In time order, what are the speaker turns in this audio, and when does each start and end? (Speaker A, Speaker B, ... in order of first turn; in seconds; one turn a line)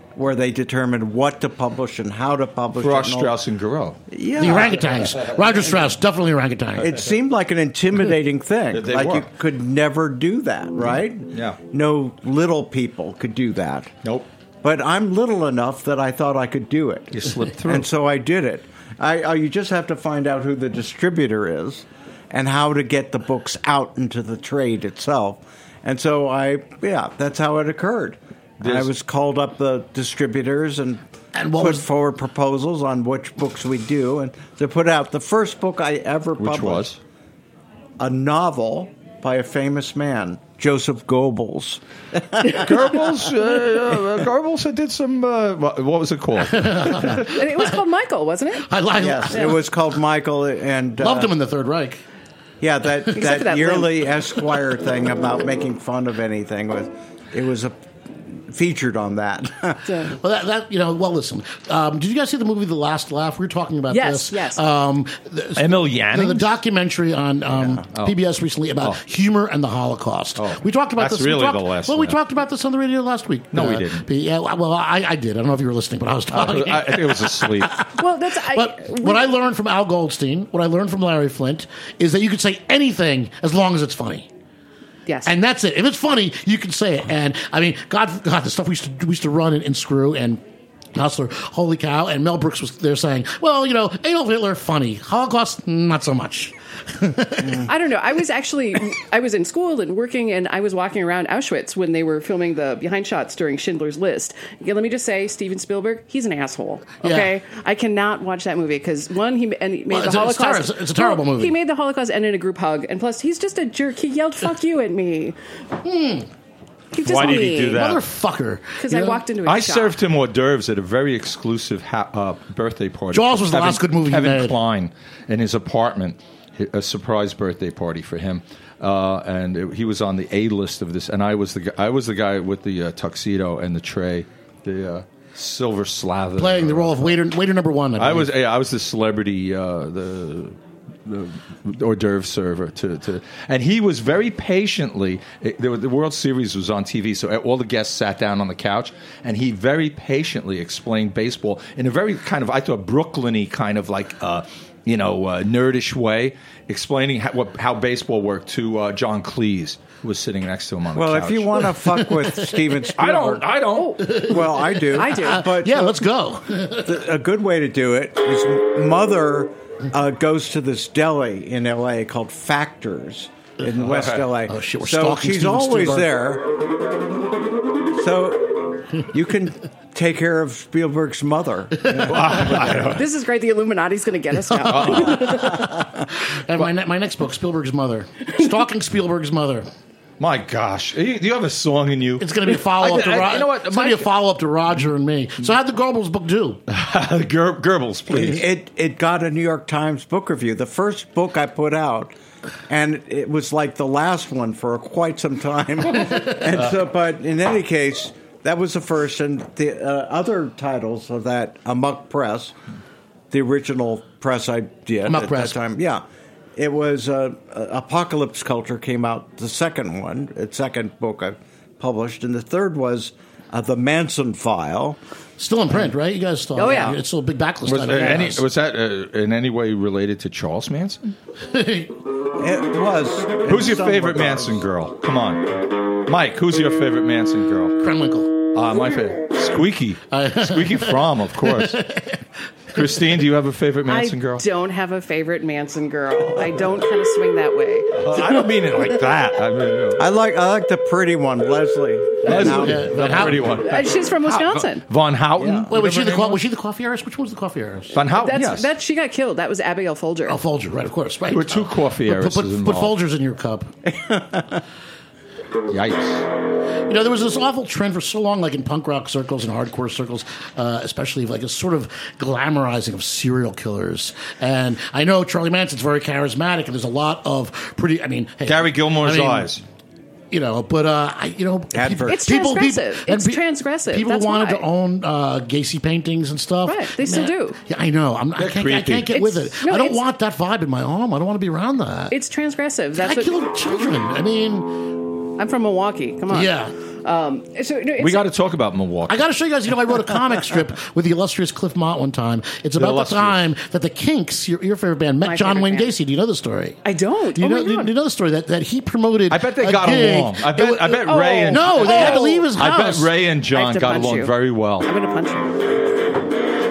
Speaker A: 0.1-3.3
Speaker B: 2.8-4.8
Speaker A: 4.1-4.8
Speaker C: 4.4-6.9
Speaker A: 6.8-13.9
Speaker B: 8.7-9.3
Speaker B: 10.8-11.6
Speaker B: 14.0-14.3
Speaker A: 14.6-31.1
Speaker B: 17.1-17.9
Speaker B: 28.6-28.9
Speaker C: 31.4-31.9
Speaker A: 31.6-36.9
Speaker B: 36.4-37.0
Speaker A: 38.0-42.7
Speaker B: 42.5-47.3
Speaker C: 46.4-47.4
Speaker D: 47.1-48.7
Speaker C: 48.7-49.6
Speaker A: 49.0-51.3
Speaker C: 51.0-52.0
Speaker A: 52.6-57.7
Speaker D: 53.1-54.0
Speaker A: 58.3-59.8
Speaker D: 59.9-60.1
Speaker C: 60.0-84.3
Speaker D: 63.9-64.6
Speaker B: 65.6-66.6
Speaker B: 70.4-72.2
Speaker B: 73.5-74.1
Speaker B: 76.3-77.8
Speaker D: 78.0-79.3
Speaker D: 85.1-85.3
Speaker C: 85.3-90.4
Speaker C: 91.0-97.7
Speaker D: 97.7-115.4
Speaker C: 107.0-107.3
Speaker C: 109.9-111.5
Speaker C: 115.8-116.3
Speaker D: 116.9-117.8
Speaker B: 117.0-118.0
Speaker C: 117.7-119.2
Speaker D: 118.8-119.9
Speaker B: 119.5-137.2
Speaker C: 123.1-124.6
Speaker C: 136.4-138.3
Speaker B: 138.0-161.9
Speaker A: 160.9-163.5
Speaker C: 162.2-162.9
Speaker B: 162.9-164.5
Speaker D: 163.8-164.2
Speaker C: 164.0-167.0
Speaker A: 164.1-165.9
Speaker D: 164.9-165.5
Speaker A: 166.8-176.5
Speaker B: 173.8-174.3
Speaker C: 174.5-176.1
Speaker A: 177.9-182.9
Speaker C: 181.8-182.3
Speaker B: 182.0-183.1
Speaker D: 182.9-185.7
Speaker C: 184.6-189.7
Speaker B: 184.7-185.6
Speaker B: 190.2-194.1
Speaker C: 192.2-196.6
Speaker B: 196.7-198.5
Speaker A: 198.1-202.1
Speaker A: 202.7-212.6
Speaker A: 213.3-216.0
Speaker C: 215.0-215.6
Speaker A: 216.6-225.0
Speaker C: 225.4-228.5
Speaker D: 226.6-227.0
Speaker A: 226.6-227.0
Speaker B: 227.7-231.0
Speaker C: 231.4-231.9
Speaker A: 232.4-234.6
Speaker B: 233.5-237.8
Speaker C: 237.8-238.4
Speaker B: 238.5-241.8
Speaker C: 240.1-242.2
Speaker B: 242.7-244.4
Speaker D: 243.9-248.8
Speaker B: 247.9-250.0
Speaker A: 250.0-253.6
Speaker B: 252.2-255.8
Speaker C: 252.3-253.6
Speaker D: 253.6-254.9
Speaker A: 255.4-256.4
Speaker C: 255.7-258.0
Speaker B: 257.9-258.7
Speaker D: 258.1-260.4
Speaker C: 260.3-263.7
Speaker B: 261.3-262.9
Speaker A: 263.9-264.6
Speaker B: 265.7-266.3
Speaker C: 266.9-279.5
Speaker B: 278.5-279.6
Speaker C: 280.3-292.2
Speaker A: 281.7-282.2
Speaker D: 282.1-284.6
Speaker D: 286.7-287.6
Speaker B: 288.4-289.1
Speaker D: 289.1-290.0
Speaker D: 292.1-293.4
Speaker C: 293.0-295.0
Speaker D: 295.4-298.3
Speaker C: 296.3-296.7
Speaker B: 298.0-299.3
Speaker C: 299.1-306.8
Speaker B: 302.8-303.4
Speaker D: 305.2-305.9
Speaker D: 306.8-307.9
Speaker C: 307.3-313.1
Speaker B: 309.3-314.9
Speaker D: 311.0-315.6